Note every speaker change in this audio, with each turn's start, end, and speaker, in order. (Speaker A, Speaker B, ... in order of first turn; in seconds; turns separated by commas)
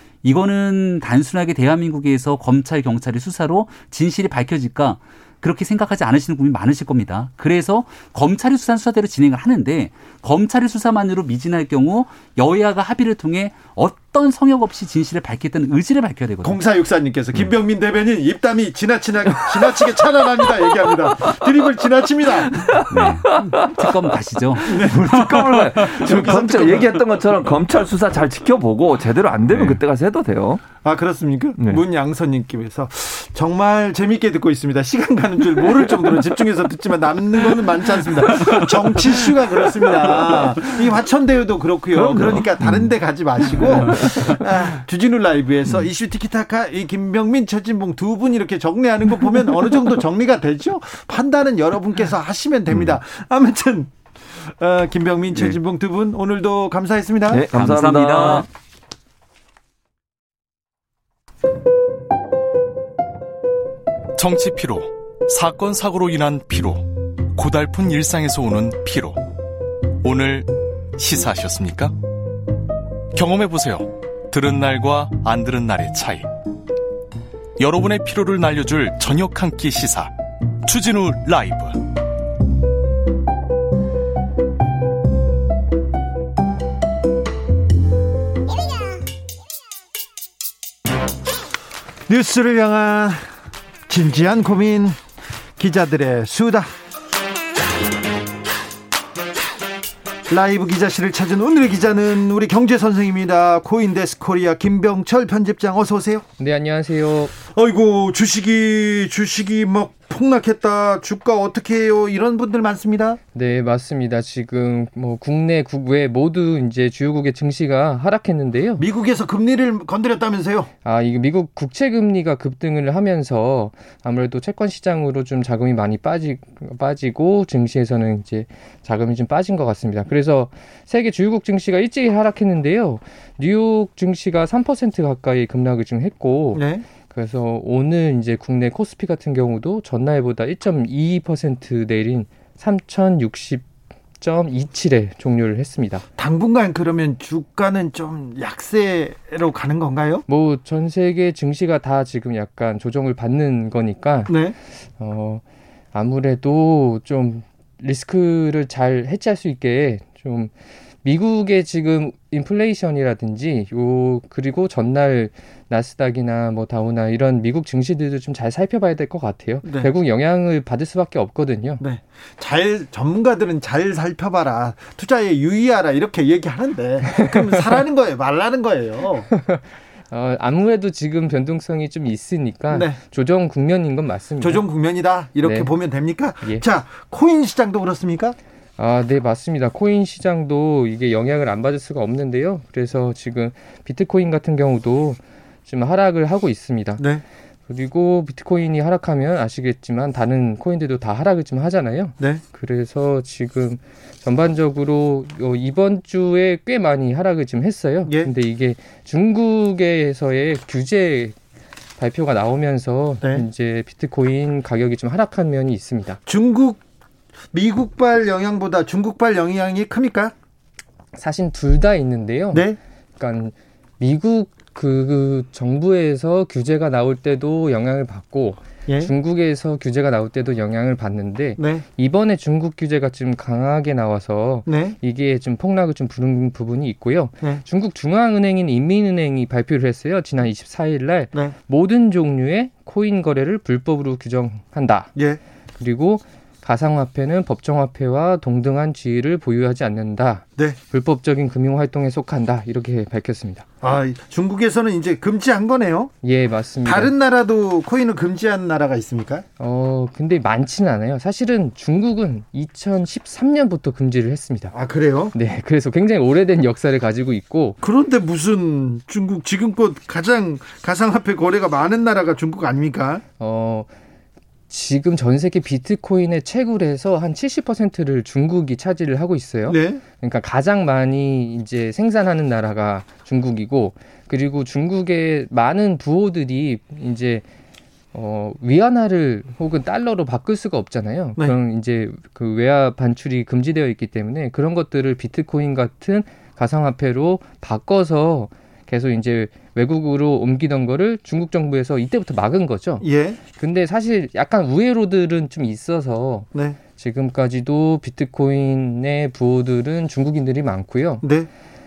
Speaker A: 0.2-16.6, Speaker B: 16.4-22.7, Speaker C: 22.5-24.1, Speaker A: 22.9-24.7, Speaker C: 24.6-30.7, Speaker B: 24.7-27.0, Speaker B: 30.8-57.5, Speaker C: 35.8-36.1, Speaker C: 38.5-39.1, Speaker C: 40.1-40.4, Speaker C: 42.0-42.9, Speaker C: 43.5-44.4, Speaker C: 57.3-58.5, Speaker A: 57.5-58.5, Speaker D: 64.2-69.2, Speaker D: 70.0-71.9, Speaker D: 73.1-76.3, Speaker D: 77.6-80.1, Speaker D: 80.6-81.8, Speaker B: 92.1-93.2, Speaker B: 93.9-95.0, Speaker B: 95.6-96.7, Speaker B: 100.3-106.3, Speaker E: 106.4-107.3, Speaker B: 107.4-113.2, Speaker E: 113.3-118.8, Speaker B: 118.8-120.7, Speaker E: 120.8-143.7, Speaker B: 136.6-136.8, Speaker E: 144.2-146.1, Speaker B: 146.2-150.2, Speaker E: 150.3-154.4, Speaker B: 154.3-154.6, Speaker E: 155.0-155.4, Speaker E: 155.9-160.5, Speaker E: 161.0-171.8, Speaker B: 169.6-169.9, Speaker B: 171.8-179.3, Speaker E: 177.0-177.7, Speaker E: 179.3-184.6, Speaker B: 182.7-183.0, Speaker B: 184.4-188.4, Speaker E: 185.4-185.7, Speaker E: 188.8-197.0, Speaker E: 197.7-211.4, Speaker E: 212.0-216.2, Speaker B: 216.3-216.8, Speaker B: 217.5-220.3, Speaker E: 221.2-245.1, Speaker B: 222.5-222.8, Speaker B: 228.9-229.1, Speaker B: 231.6-231.8, Speaker B: 234.7-234.9, Speaker E: 245.8-253.7, Speaker B: 253.8-256.1, Speaker E: 256.2-257.1, Speaker B: 256.9-259.4, Speaker E: 259.6-264.7, Speaker B: 264.7-265.3, Speaker E: 265.3-267.8, Speaker B: 267.8-273.2, Speaker E: 273.4-273.9, Speaker E: 274.7-287.4, Speaker B: 279.7-280.0, Speaker E: 288.1-311.2, Speaker B: 303.0-303.4, Speaker B: 306.5-306.8, Speaker B: 311.2-311.5